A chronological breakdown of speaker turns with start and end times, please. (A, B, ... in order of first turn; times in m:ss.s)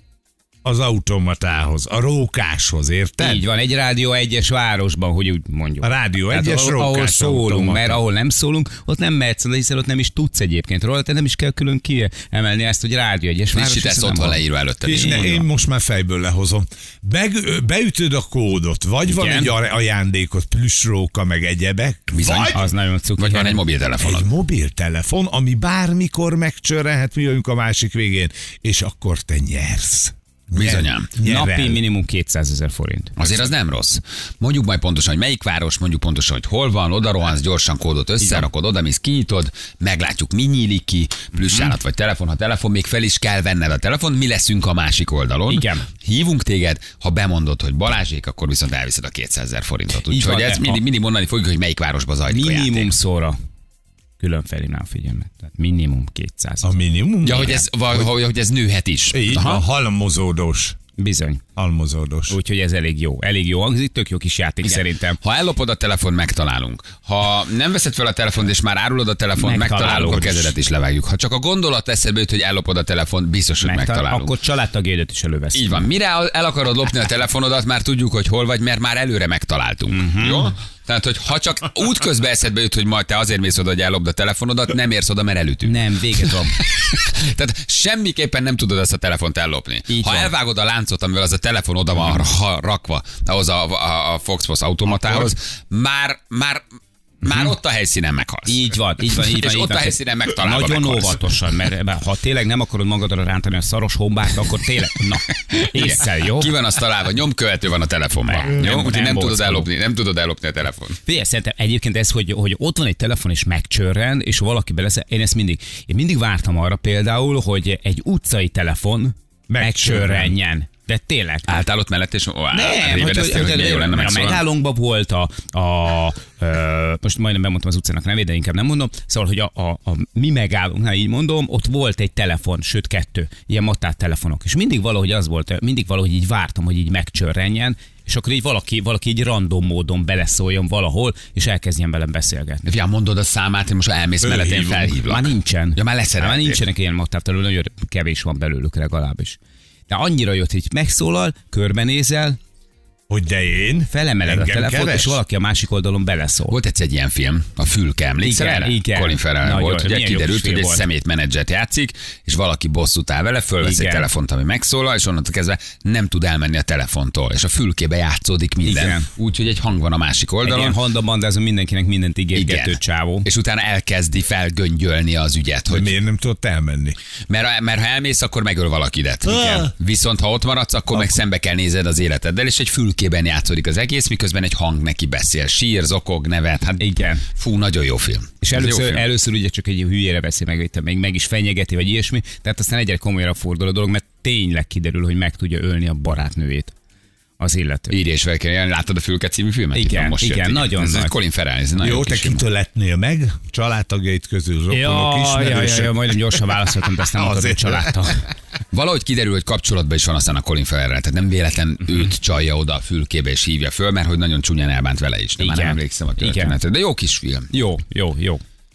0:00.6-0:03.4 A
0:03.2-0:15.4 B
0:05.8-0:08.0 A
0:13.5-0:15.4 C
0:14.8-0:22.6 A
0:19.0-0:19.5 B
0:22.1-0:24.3 C
0:22.5-0:23.6 B
0:24.0-0:31.8 A
0:30.6-0:31.1 C
0:31.2-0:33.2 B
0:33.2-0:52.9 C
0:41.4-0:41.7 B
0:45.5-0:45.9 B
0:50.1-0:50.8 B
0:52.3-0:53.4 B
0:54.2-0:56.8 B
0:56.6-0:57.6 A
0:57.2-0:59.6 C
0:59.1-1:00.8 A
1:01.0-1:01.4 B
1:01.6-1:02.4 A
1:02.3-1:05.2 B
1:04.6-1:14.4 C
1:09.4-1:10.6 B
1:13.6-1:15.9 B
1:15.5-1:36.6 C
1:19.9-1:20.5 B
1:25.6-1:26.6 B
1:29.9-1:30.3 B
1:37.2-1:38.6 C
1:38.5-1:46.5 B
1:39.2-1:41.2 C
1:45.5-1:51.0 C
1:48.3-1:49.7 B
1:51.1-2:01.5 B
1:59.5-2:00.3 A
2:01.5-2:04.4 C
2:02.5-2:22.6 B
2:22.6-2:26.6 C
2:24.2-2:25.0 A
2:25.0-2:32.4 B
2:33.1-2:35.2 A
2:33.9-2:36.6 B
2:36.5-2:50.8 C
2:38.2-2:40.8 B
2:43.6-2:44.1 B
2:48.6-2:49.1 B
2:50.4-2:53.3 B
2:52.4-2:56.0 C
2:55.7-2:57.0 A
2:57.3-3:09.0 C
2:59.4-2:59.7 A
3:06.8-3:07.2 B
3:08.4-3:16.7 B
3:17.4-3:18.0 B
3:17.9-3:22.4 C
3:19.8-3:21.1 B
3:21.8-3:26.1 A
3:24.7-3:28.2 B
3:27.1-3:28.1 A
3:28.7-3:37.5 C
3:35.4-3:36.6 B
3:37.5-3:38.4 B